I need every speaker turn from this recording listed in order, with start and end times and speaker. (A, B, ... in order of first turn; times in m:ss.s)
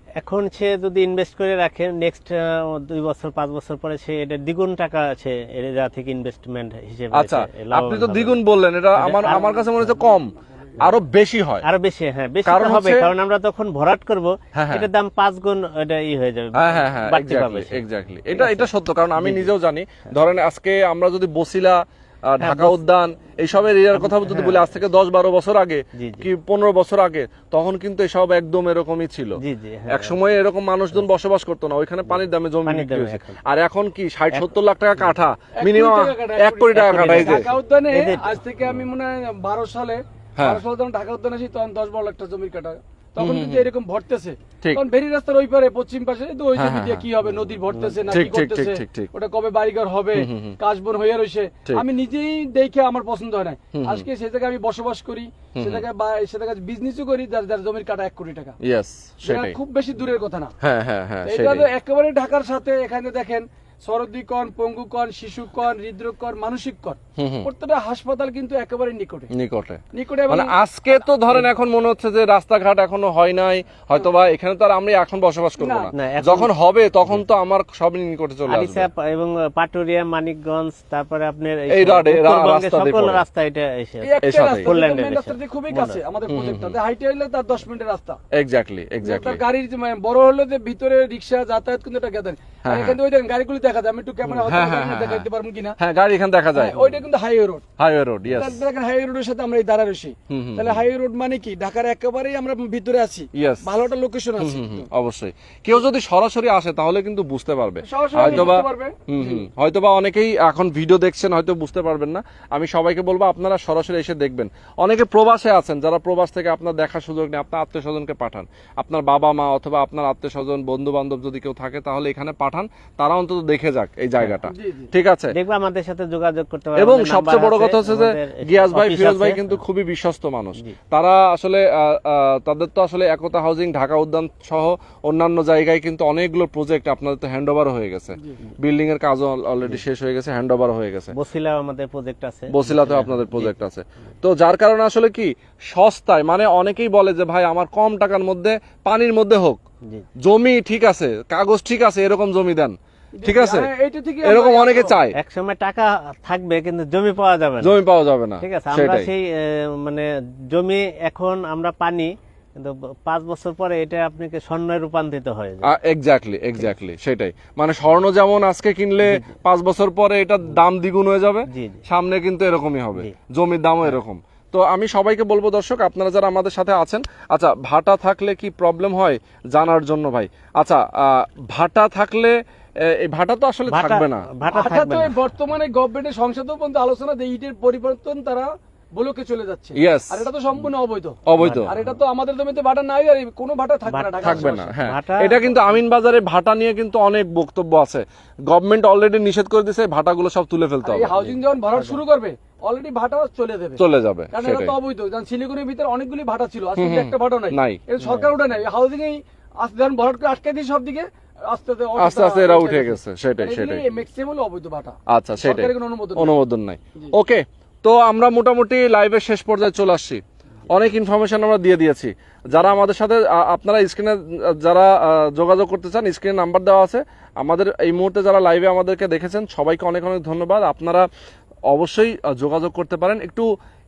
0:00.2-0:10.2 A
0:07.1-0:11.6 B
0:11.6-0:17.8 A
0:12.4-0:13.1 B
0:14.5-0:14.9 B
0:16.6-0:29.4 B
0:18.3-0:19.5 A
0:22.4-0:22.8 A
0:23.9-0:24.8 A
0:26.0-0:26.3 A
0:29.4-0:30.2 A
0:29.9-0:37.5 B
0:32.1-0:33.4 A
0:35.6-0:58.6 C
0:36.7-0:38.8 A
0:43.2-0:43.6 B
0:46.6-0:47.0 B
0:47.3-0:48.1 A
0:48.1-0:49.1 B
0:50.2-0:50.6 B
0:53.7-0:54.0 B
0:55.6-0:55.8 B
0:58.6-0:59.5 B
0:59.2-1:00.5 C
1:00.6-1:01.7 B
1:01.3-1:09.3 C
1:07.2-1:07.5 B
1:09.3-1:18.9 B
1:09.9-1:11.4 C
1:15.6-1:15.9 C
1:15.9-1:16.5 A
1:18.5-1:26.0 A
1:21.7-1:23.2 B
1:24.0-1:28.2 C
1:24.2-1:24.7 B
1:26.3-1:26.7 B
1:28.3-1:29.4 B
1:29.0-1:35.8 C
1:32.6-1:33.0 B
1:34.5-1:35.3 B
1:35.8-1:37.0 B
1:36.5-1:37.7 C
1:37.8-1:38.6 B
1:38.3-1:44.9 C
1:40.3-1:40.8 B
1:43.4-1:43.7 B
1:44.4-2:05.4 B
1:47.8-1:49.4 C
2:04.5-2:04.9 C
2:05.3-2:09.6 A
2:06.8-2:21.1 B
2:21.1-2:23.5 A
2:22.5-2:29.6 B
2:30.2-2:33.7 B
2:33.2-2:35.0 C
2:34.2-2:35.2 B
2:35.2-2:37.8 A
2:37.6-2:39.1 B
2:38.4-2:45.7 A
2:45.6-3:02.3 B
2:49.0-2:49.3 A
2:51.5-2:51.8 A
3:02.9-3:04.3 B
3:03.7-3:05.2 A
3:04.5-3:14.8 C
3:09.8-3:10.2 B
3:11.3-3:11.7 B
3:11.4-3:11.7 A
3:13.9-3:15.4 A
3:14.2-3:21.2 B
3:15.4-3:15.6 C
3:20.8-3:23.8 C
3:21.2-3:22.0 A
3:23.8-3:24.7 B
3:24.3-3:36.4 C
3:26.8-3:27.8 B
3:28.0-3:28.4 A
3:32.0-3:33.8 B
3:35.1-3:51.1 B
3:51.7-3:53.5 B